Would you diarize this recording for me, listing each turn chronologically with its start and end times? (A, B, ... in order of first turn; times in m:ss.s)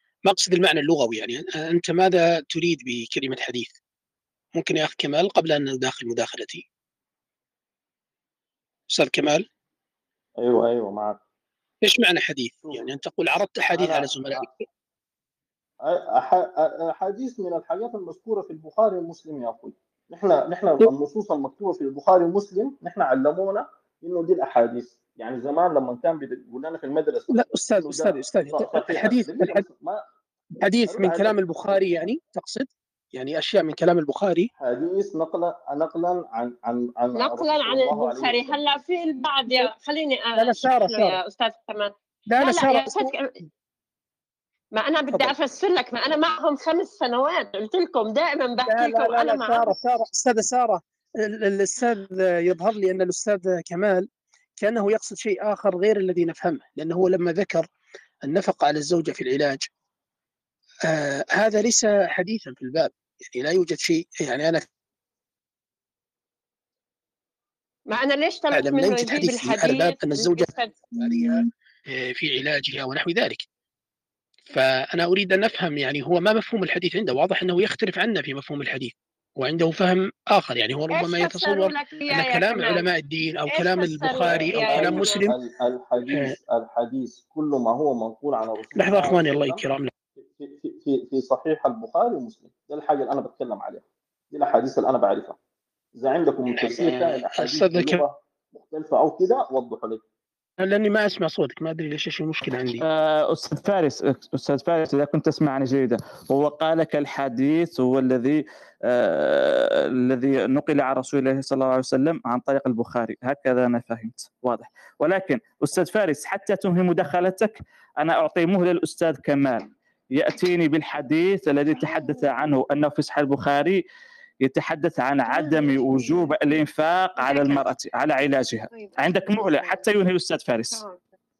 0:00.3-0:03.7 A
0:04.6-0:06.6 A
0:08.9-0:09.4 A
0:10.4-0:11.2 B
0:11.8-0:14.4 A
0:13.7-0:14.5 B
0:15.8-0:30.0 B
0:27.3-0:29.6 A
0:30.6-0:34.5 A
0:30.8-0:31.9 B
0:34.6-0:38.7 B
0:37.2-0:43.2 C
0:40.4-0:41.2 A
0:42.3-0:43.1 A
0:44.7-0:49.7 C
0:48.6-0:54.0 A
0:54.6-0:57.7 A
0:58.2-0:59.7 A
1:00.9-1:04.6 A
1:07.9-1:10.8 C
1:08.5-1:13.4 A
1:14.5-1:25.4 A
1:20.9-1:22.8 C
1:23.5-1:25.3 C
1:24.2-1:29.6 B
1:28.8-1:29.9 A
1:30.2-1:35.4 B
1:36.0-1:40.0 B
1:36.5-1:38.0 A
1:40.6-1:42.8 A
1:42.8-2:03.8 D
2:01.8-2:02.3 C
2:04.4-2:10.8 D
2:05.3-2:06.3 C
2:07.2-2:07.7 C
2:08.7-2:09.9 C
2:10.7-2:11.0 C